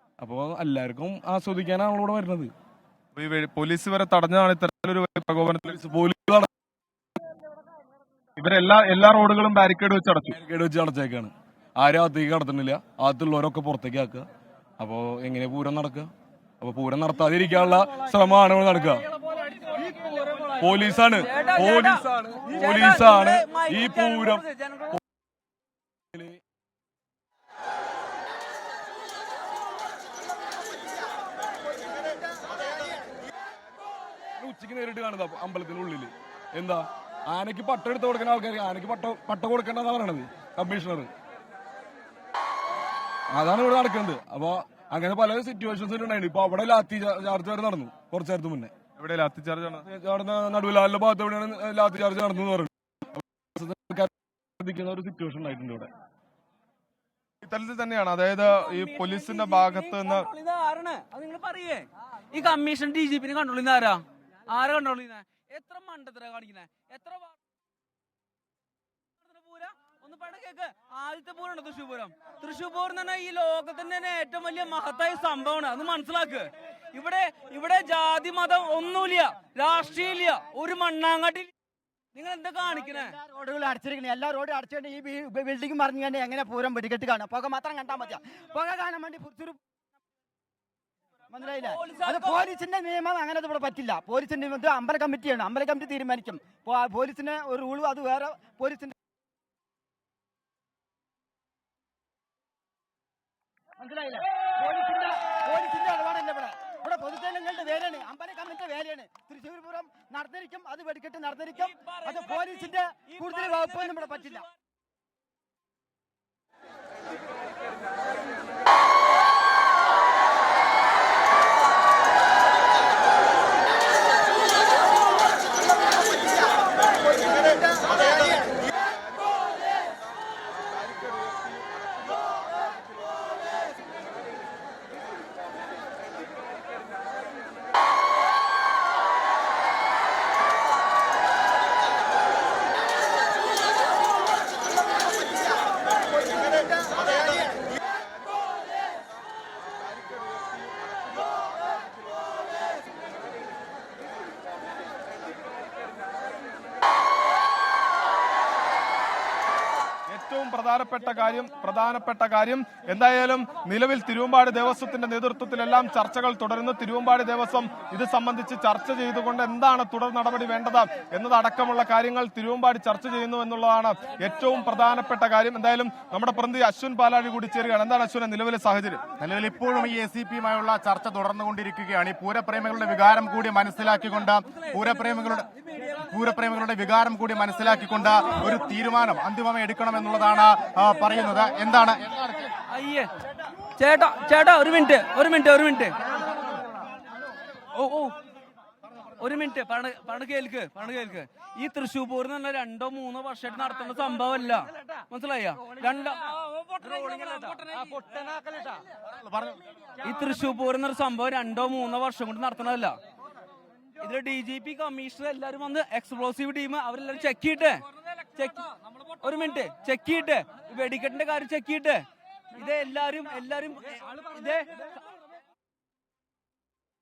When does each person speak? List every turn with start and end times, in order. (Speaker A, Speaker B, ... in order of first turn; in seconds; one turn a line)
Speaker A: 0.2-2.5
Speaker B: 3.2-5.8
Speaker A: 5.7-6.5
Speaker B: 8.4-10.4
Speaker A: 10.4-14.2
Speaker A: 14.8-16.1
Speaker A: 16.6-19.0
Speaker A: 20.6-24.4
Speaker C: 21.2-24.9
Speaker A: 26.1-26.4
Speaker A: 34.4-41.1
Speaker A: 43.3-48.7
Speaker B: 49.0-49.9
Speaker A: 49.9-55.9
Speaker B: 57.4-60.3
Speaker C: 58.5-67.3
Speaker C: 69.2-81.5
Speaker C: 82.2-83.1
Speaker D: 82.9-89.6
Speaker D: 91.3-99.0
Speaker C: 91.8-92.4
Speaker D: 103.8-114.4
Speaker C: 111.6-114.5
Speaker B: 160.1-179.0
Speaker E: 179.2-185.5
Speaker E: 186.1-192.5
Speaker C: 192.7-193.1
Speaker C: 193.8-196.0
Speaker C: 197.7-198.2
Speaker C: 199.2-208.0
Speaker C: 210.0-213.0
Speaker C: 214.0-217.8
Speaker C: 218.4-218.6
Speaker C: 219.2-222.0
Speaker C: 222.6-224.8